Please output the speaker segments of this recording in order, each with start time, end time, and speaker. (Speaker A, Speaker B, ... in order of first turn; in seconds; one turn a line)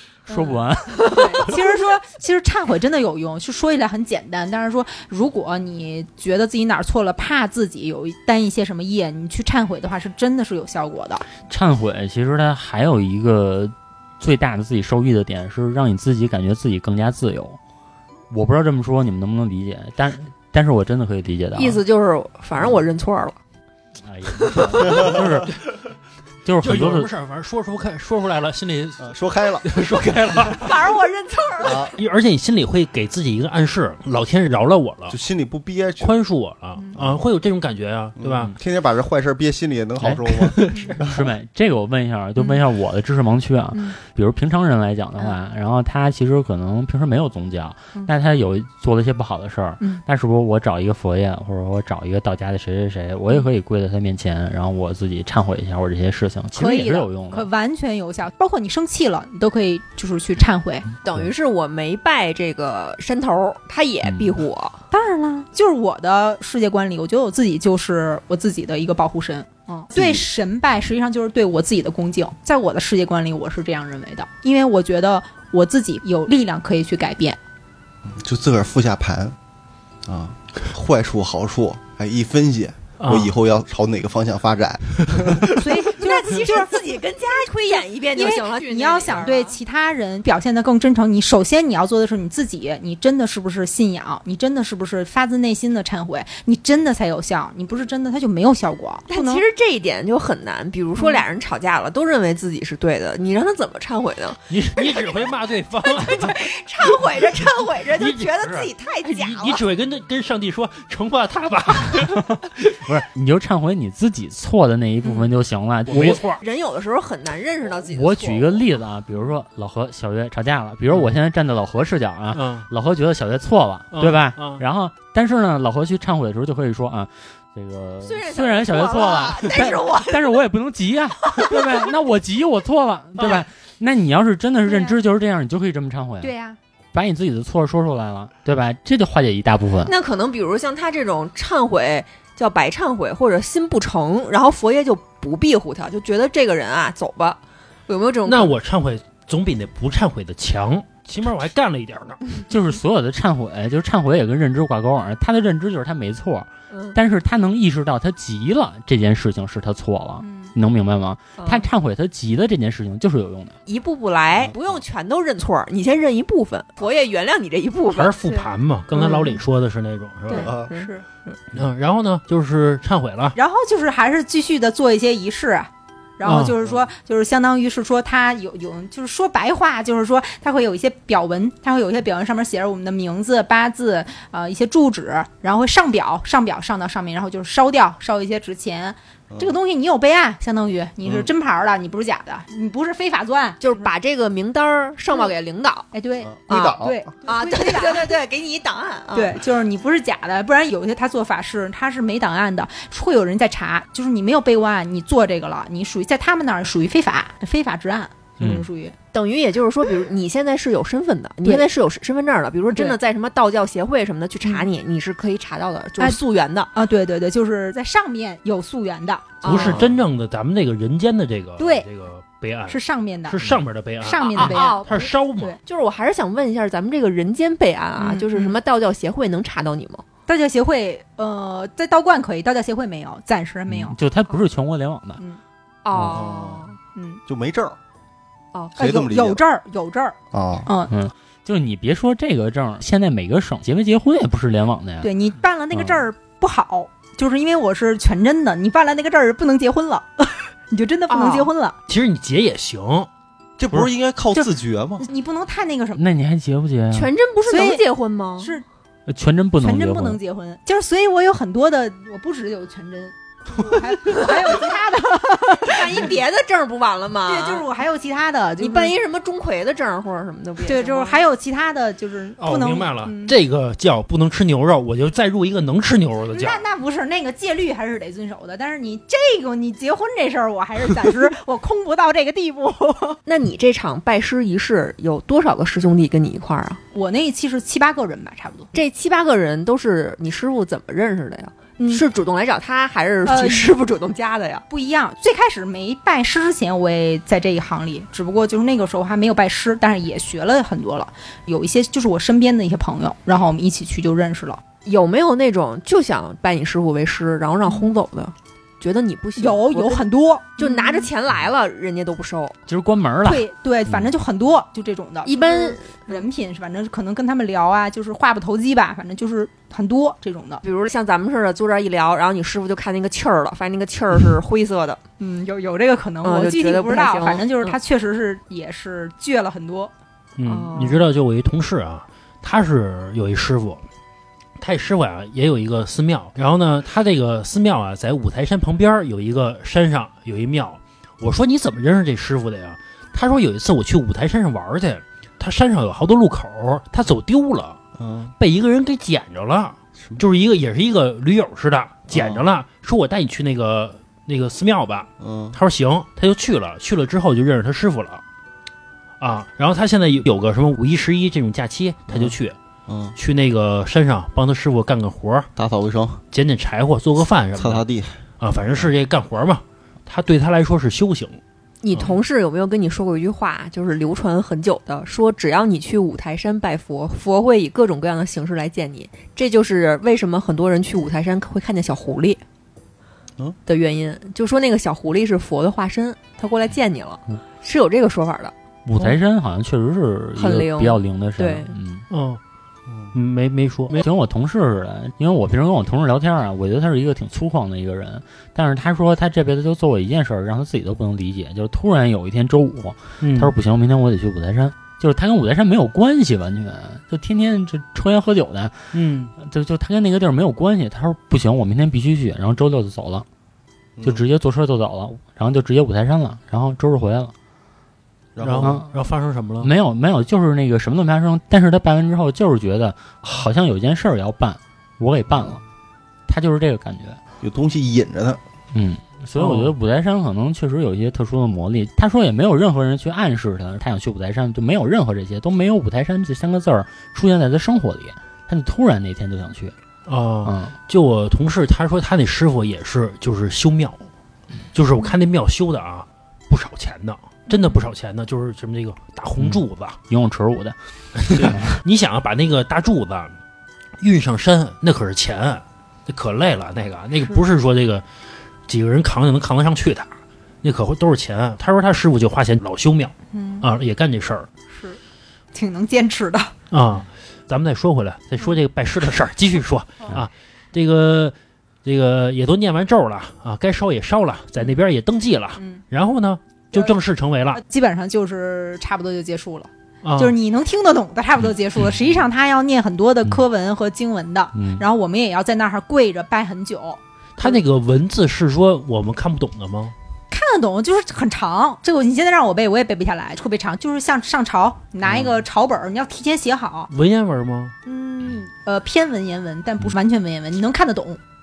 Speaker A: 0.3-1.5
Speaker B: 0.3-11.2
Speaker C: 0.9-1.6
Speaker A: 11.5-17.6
Speaker A: 18.3-21.8
Speaker C: 21.6-23.4
Speaker A: 24.0-25.6
Speaker A: 26.4-27.1
Speaker D: 26.6-29.1
Speaker E: 29.0-29.7
Speaker D: 29.6-30.7
Speaker C: 30.6-31.9
Speaker E: 31.6-31.9
Speaker D: 31.9-35.1
Speaker E: 35.1-36.1
Speaker D: 36.0-38.5
Speaker E: 38.2-40.6
Speaker A: 40.0-40.3
Speaker D: 40.4-41.0
Speaker A: 41.0-57.5
Speaker B: 56.5-60.9
Speaker C: 61.0-64.8
Speaker A: 64.0-64.3
Speaker B: 64.9-77.4
Speaker E: 69.9-70.2
Speaker E: 78.1-79.3
Speaker E: 80.0-85.4
Speaker D: 83.0-83.3
Speaker B: 85.5-86.7
Speaker C: 85.8-89.5
Speaker B: 88.1-99.4
Speaker C: 99.1-105.2
Speaker B: 101.0-101.2
Speaker D: 104.5-106.5
Speaker C: 105.8-109.6
Speaker D: 107.9-112.8
Speaker A: 112.8-116.2
Speaker D: 115.9-116.4
Speaker C: 116.1-118.6
Speaker A: 117.9-136.3
Speaker D: 122.3-122.7
Speaker D: 123.9-124.6
Speaker C: 128.0-130.4
Speaker C: 131.2-131.8
Speaker B: 134.7-134.9
Speaker B: 136.2-136.6
Speaker A: 136.9-139.9
Speaker C: 139.8-148.5
Speaker D: 148.2-152.2
Speaker A: 152.5-163.6
Speaker C: 156.7-157.0
Speaker B: 160.2-160.5
Speaker C: 161.4-161.7
Speaker C: 163.7-169.3
Speaker D: 167.9-170.5
Speaker B: 170.3-171.1
Speaker C: 170.3-171.3
Speaker E: 170.4-170.7
Speaker D: 171.5-173.3
Speaker B: 173.3-193.9
Speaker D: 176.2-176.5
Speaker C: 193.6-195.9
Speaker B: 195.9-198.1
Speaker E: 196.2-197.1
Speaker C: 196.5-199.4
Speaker B: 199.1-208.9
Speaker A: 208.4-208.7
Speaker C: 209.1-216.7
Speaker B: 212.7-213.0
Speaker B: 216.7-219.8
Speaker C: 219.4-219.9
Speaker D: 219.4-225.6
Speaker B: 221.6-221.8
Speaker B: 222.7-223.4
Speaker B: 224.0-225.6
Speaker C: 224.2-225.1
Speaker C: 225.6-230.0
Speaker B: 228.0-228.6
Speaker B: 230.3-234.0
Speaker A: 233.7-235.2
Speaker C: 235.8-236.8
Speaker E: 235.9-236.7
Speaker B: 236.9-237.2
Speaker E: 237.2-237.8
Speaker E: 238.7-239.4
Speaker B: 238.8-240.9
Speaker E: 240.3-240.7
Speaker A: 240.9-245.1
Speaker B: 245.0-251.8
Speaker A: 245.7-246.0
Speaker C: 251.1-251.5
Speaker D: 251.9-253.1
Speaker E: 253.6-255.0
Speaker B: 255.0-256.0
Speaker A: 255.9-257.1
Speaker C: 256.9-258.5
Speaker B: 257.5-257.8
Speaker B: 258.4-258.6
Speaker A: 259.1-260.2
Speaker B: 259.6-266.1
Speaker C: 265.6-267.6
Speaker B: 267.2-268.9
Speaker C: 268.6-271.2
Speaker B: 270.6-273.4
Speaker D: 272.4-276.6
Speaker B: 276.3-283.2
Speaker C: 283.2-286.8
Speaker B: 286.9-288.7
Speaker C: 288.7-294.6
Speaker B: 291.8-292.0
Speaker B: 293.2-293.7
Speaker B: 294.7-304.6
Speaker C: 304.8-310.0
Speaker B: 309.4-311.1
Speaker C: 310.6-312.6
Speaker A: 312.7-313.4
Speaker B: 313.2-320.6
Speaker C: 315.2-316.2
Speaker C: 320.6-325.0
Speaker B: 325.2-329.9
Speaker C: 326.2-327.8
Speaker D: 330.4-333.9
Speaker C: 330.4-331.0
Speaker D: 334.6-347.8
Speaker E: 348.0-348.3
Speaker D: 348.4-358.2
Speaker E: 352.1-352.4
Speaker E: 355.2-355.6
Speaker D: 359.2-362.5
Speaker E: 362.1-362.4
Speaker E: 362.9-363.1
Speaker D: 363.1-365.5
Speaker E: 365.6-366.2
Speaker D: 366.3-367.8
Speaker E: 367.6-368.2
Speaker D: 368.4-371.4
Speaker C: 371.8-382.4
Speaker C: 383.6-388.5
Speaker A: 388.9-392.1
Speaker C: 390.4-391.7
Speaker D: 392.1-392.4
Speaker D: 393.1-394.0
Speaker A: 393.9-413.2
Speaker D: 403.2-403.5
Speaker D: 408.9-409.3
Speaker E: 414.0-414.2
Speaker A: 414.0-417.3
Speaker E: 418.4-418.8
Speaker D: 418.4-419.7
Speaker A: 418.6-418.9
Speaker A: 419.6-425.6
Speaker A: 426.3-427.2
Speaker E: 427.4-428.4
Speaker A: 428.7-439.7
Speaker D: 429.4-429.7
Speaker D: 440.1-444.0
Speaker A: 440.4-440.7
Speaker D: 444.7-450.0
Speaker B: 447.5-447.8
Speaker A: 449.4-450.8
Speaker D: 451.2-453.4
Speaker A: 451.3-451.8
Speaker D: 454.0-458.0
Speaker D: 458.7-464.5
Speaker B: 463.3-463.7
Speaker B: 464.7-465.0
Speaker B: 465.5-466.5
Speaker D: 466.7-477.6
Speaker B: 475.6-475.8
Speaker B: 477.5-487.6
Speaker D: 480.0-480.3
Speaker A: 484.5-484.8
Speaker D: 487.4-489.9
Speaker B: 490.3-496.9
Speaker D: 496.9-497.7
Speaker B: 497.8-501.2